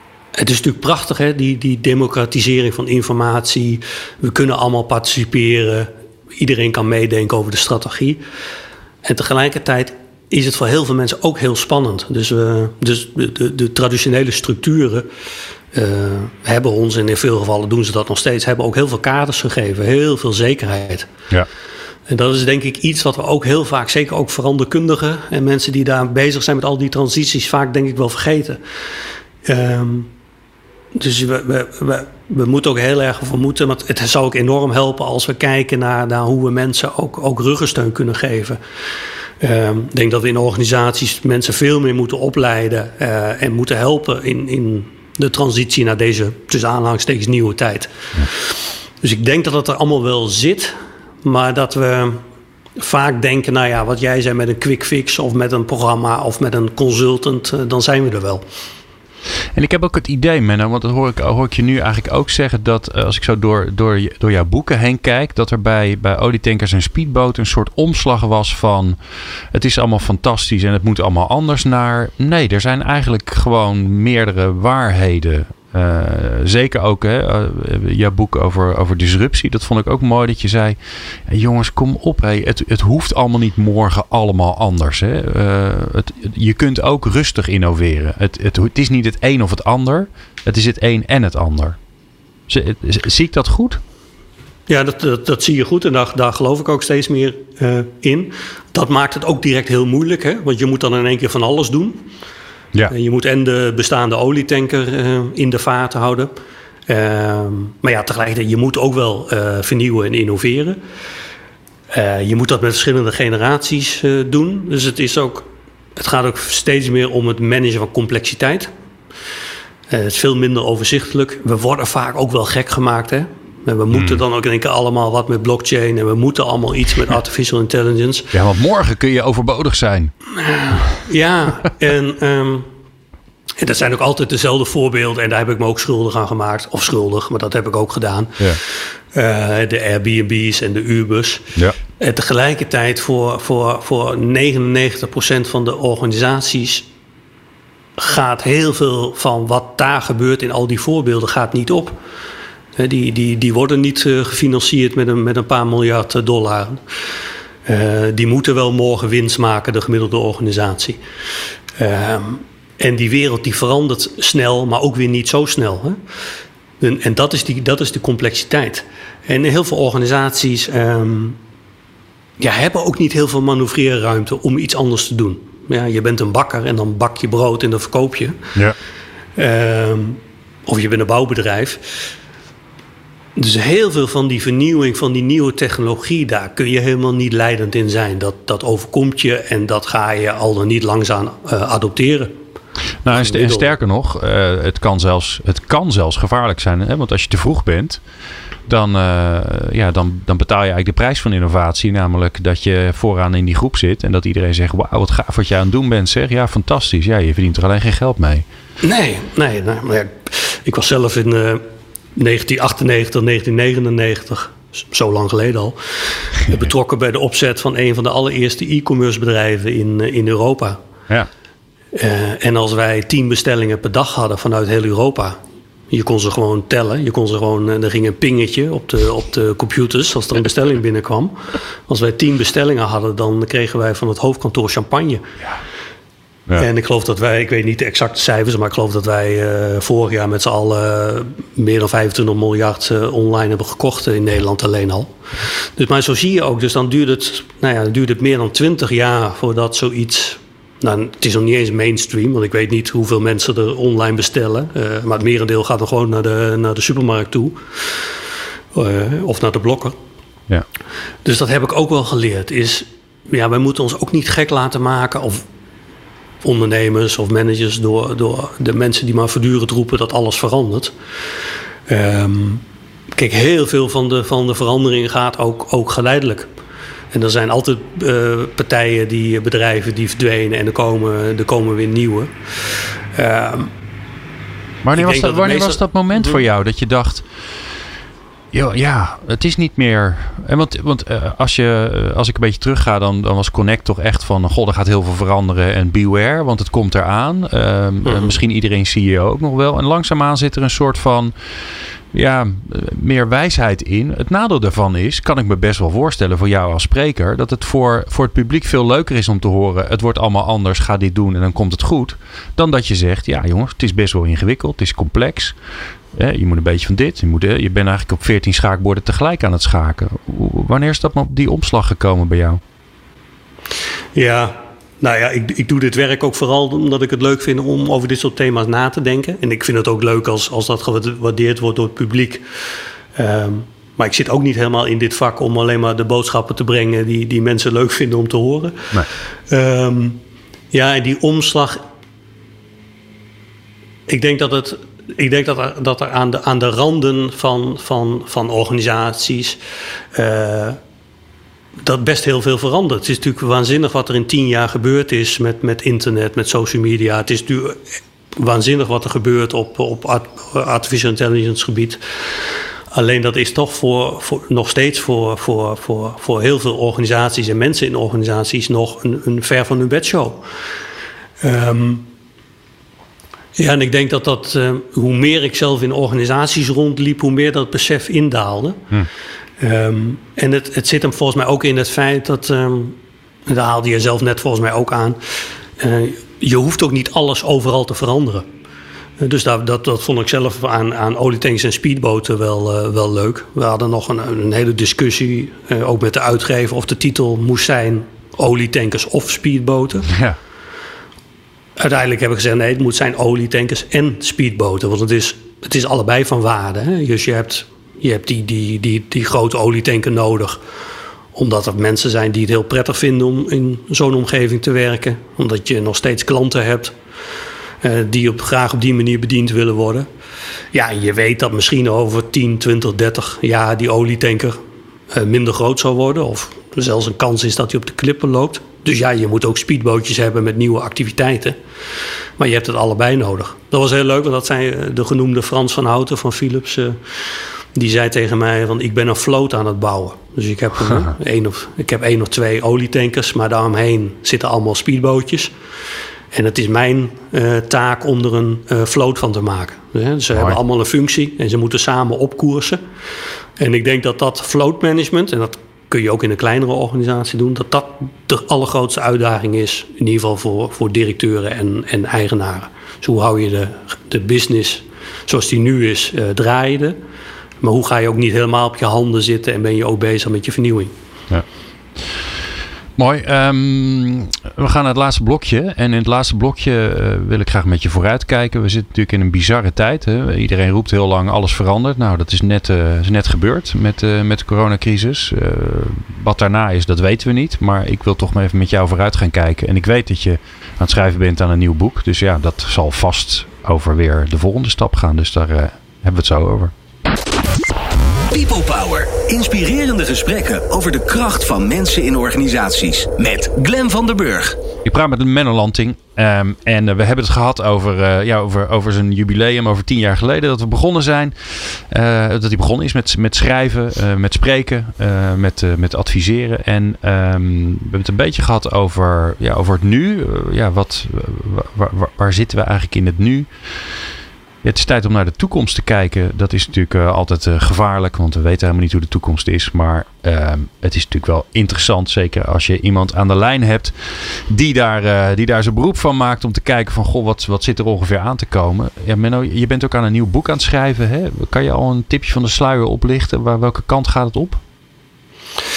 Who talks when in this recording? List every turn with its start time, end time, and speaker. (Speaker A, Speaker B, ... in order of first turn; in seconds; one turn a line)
Speaker A: 0.3-8.2
Speaker A: 9.0-15.1
Speaker A: 15.7-21.1
Speaker A: 22.1-28.6
Speaker A: 29.4-30.1
Speaker A: 30.9-38.6
Speaker A: 39.4-52.2
Speaker A: 52.8-58.5
Speaker B: 59.5-69.0
Speaker B: 69.5-91.8
Speaker B: 92.5-93.8
Speaker A: 94.7-102.0
Speaker A: 102.9-106.3
Speaker A: 106.9-110.8
Speaker A: 111.9-118.7
Speaker A: 119.9-128.3
Speaker B: 123.9-124.2
Speaker B: 128.3-130.1
Speaker A: 130.4-132.7
Speaker A: 133.6-146.9
Speaker A: 148.0-152.0
Speaker A: 152.8-156.8
Speaker A: 157.7-161.0
Speaker A: 161.8-166.0
Speaker A: 166.8-171.4
Speaker A: 172.4-178.5
Speaker A: 179.4-182.1
Speaker A: 183.4-192.3
Speaker B: 193.0-198.0
Speaker A: 193.1-193.7
Speaker B: 198.7-208.5
Speaker A: 208.8-211.6
Speaker A: 212.2-220.8
Speaker A: 221.9-225.4
Speaker A: 225.9-235.2
Speaker A: 236.5-258.2
Speaker A: 258.7-260.0
Speaker A: 261.2-265.4
Speaker A: 266.4-270.9
Speaker A: 271.9-272.6
Speaker A: 273.1-276.5
Speaker A: 277.1-283.7
Speaker B: 284.8-287.3
Speaker A: 285.0-286.4
Speaker B: 288.5-301.3
Speaker A: 298.1-298.4
Speaker B: 302.1-315.6
Speaker B: 316.1-322.6
Speaker A: 324.1-332.4
Speaker A: 333.1-341.8
Speaker A: 344.1-349.6
Speaker A: 350.1-350.8
Speaker A: 351.8-357.8
Speaker A: 358.4-362.3
Speaker A: 362.9-370.4
Speaker A: 371.4-372.1
Speaker A: 373.6-378.9
Speaker A: 379.6-385.2
Speaker A: 385.8-388.5
Speaker A: 389.2-400.1
Speaker B: 400.1-400.4
Speaker A: 401.8-410.6
Speaker A: 411.3-416.9
Speaker A: 417.8-420.1
Speaker A: 420.7-424.6
Speaker A: 425.1-431.6
Speaker A: 432.4-445.5
Speaker A: 446.3-452.8
Speaker A: 453.6-467.0
Speaker A: 467.6-470.9
Speaker B: 473.0-496.7
Speaker C: 498.3-504.6
Speaker B: 504.8-523.9
Speaker B: 524.6-544.6